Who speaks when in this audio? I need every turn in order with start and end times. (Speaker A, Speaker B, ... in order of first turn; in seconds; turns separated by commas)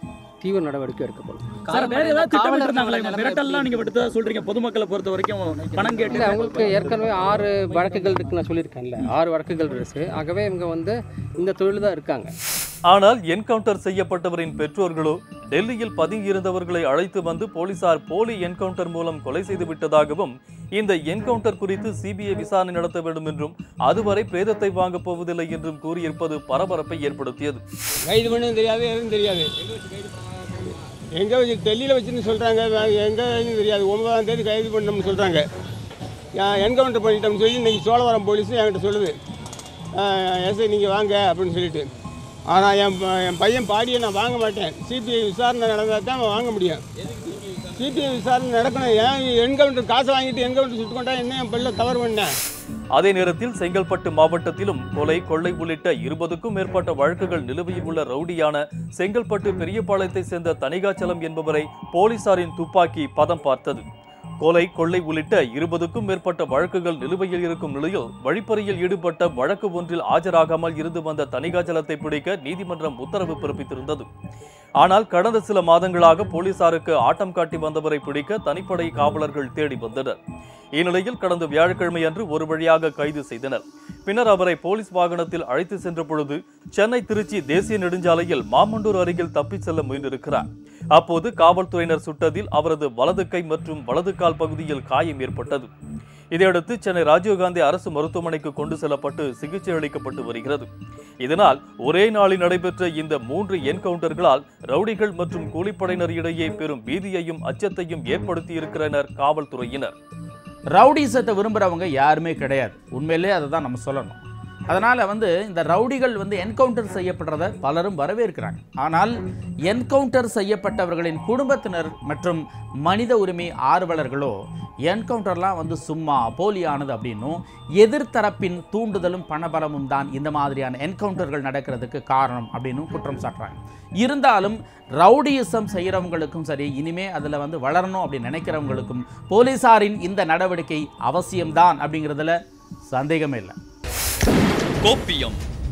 Speaker A: 0.4-1.5, Speaker B: 1.6-6.4, Speaker A: 6.0-12.3, Speaker C: 12.9-27.6, Speaker D: 28.1-29.5, Speaker D: 31.1-35.4, Speaker D: 36.3-39.1, Speaker D: 39.9-41.9, Speaker D: 42.5-46.8, Speaker D: 47.7-52.3, Speaker C: 52.9-63.8, Speaker C: 64.4-74.1, Speaker C: 74.8-80.2, Speaker C: 80.8-95.7, Speaker C: 96.3-100.7, Speaker C: 101.2-109.9, Speaker E: 110.7-119.1, Speaker E: 119.7-124.3, Speaker E: 124.9-142.3, Speaker E: 142.9-143.5, Speaker C: 144.8-145.4